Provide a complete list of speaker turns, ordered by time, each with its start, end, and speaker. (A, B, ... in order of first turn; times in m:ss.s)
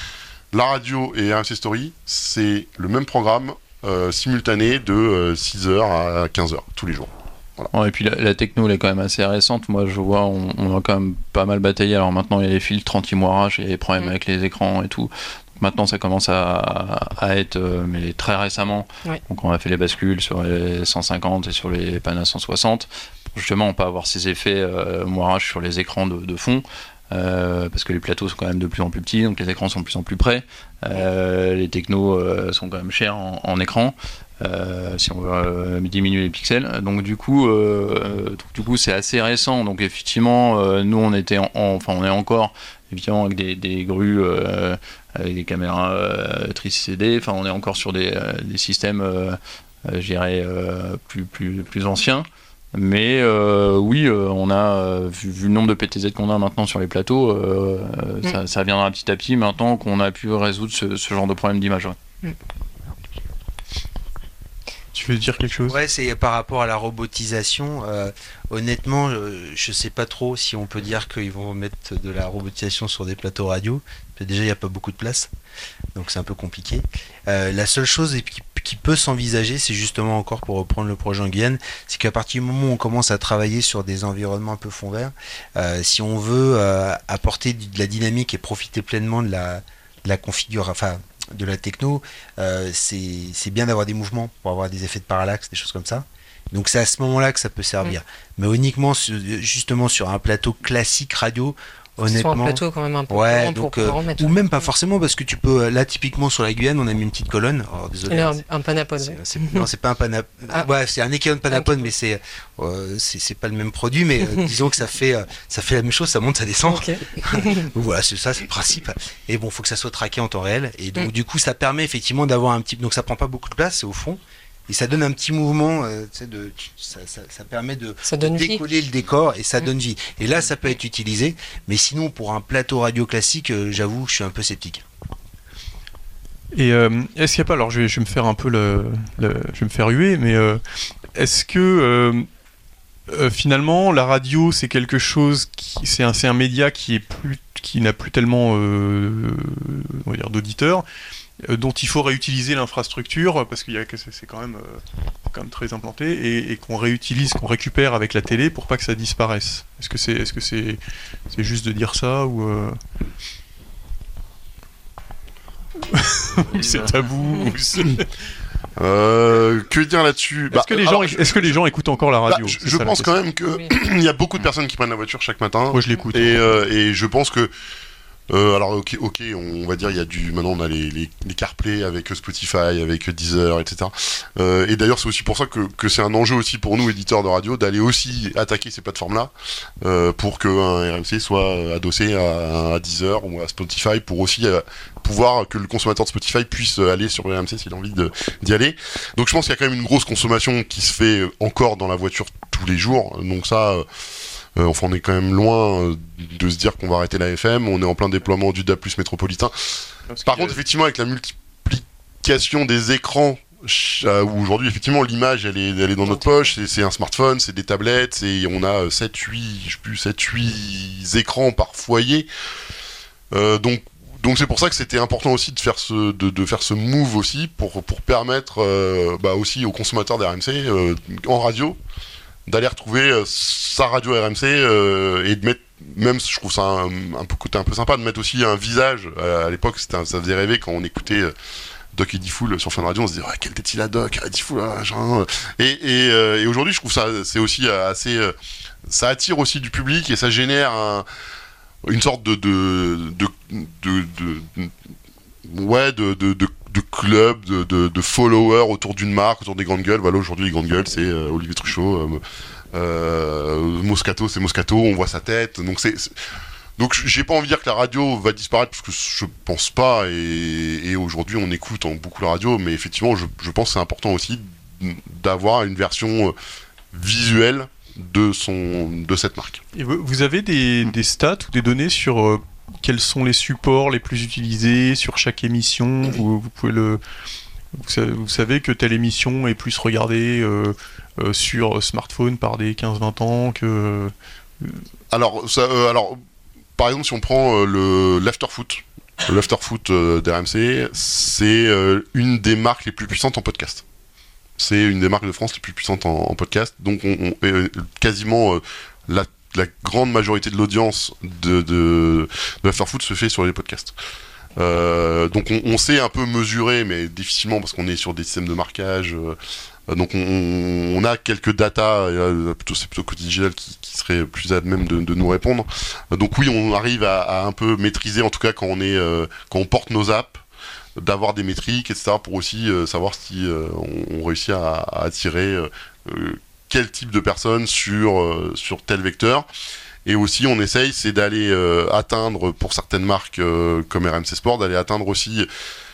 0:00.5-0:07.7 A
0:07.7-1:02.0 B
1:04.9-1:05.8 C
1:05.7-1:15.3 D
1:15.9-1:48.4 D
1:42.0-1:44.4 E
1:48.1-1:49.7 E
1:49.0-2:14.8 D
1:56.7-1:57.7 E
2:08.1-2:08.6 E
2:16.5-2:20.6 C
2:21.2-2:22.3 C
2:23.1-2:30.9 C
2:31.4-2:42.8 C
2:45.9-2:48.0 C
2:46.6-2:46.9 A
2:47.4-2:47.9 A
2:48.8-2:51.6 A
2:50.5-2:53.1 C
2:52.3-2:57.5 A
2:55.7-2:56.5 C
2:58.3-3:23.9 A
3:24.6-3:42.3 A
3:30.1-3:30.6 C
3:43.3-3:51.8 A
3:52.5-4:01.3 A
4:01.9-4:08.4 A
4:08.9-4:11.1 A
4:11.8-4:14.7 A
4:15.5-4:22.2 A
4:22.7-4:26.2 A
4:26.8-4:36.4 A
4:36.9-4:39.6 A
4:39.8-4:47.0 C
4:47.7-4:54.8 C
4:55.1-4:56.2 A
4:56.8-5:03.8 A
5:04.6-5:14.0 A
5:14.6-5:19.4 A
5:19.9-5:30.4 A
5:31.0-5:39.5 A
5:40.0-5:45.5 A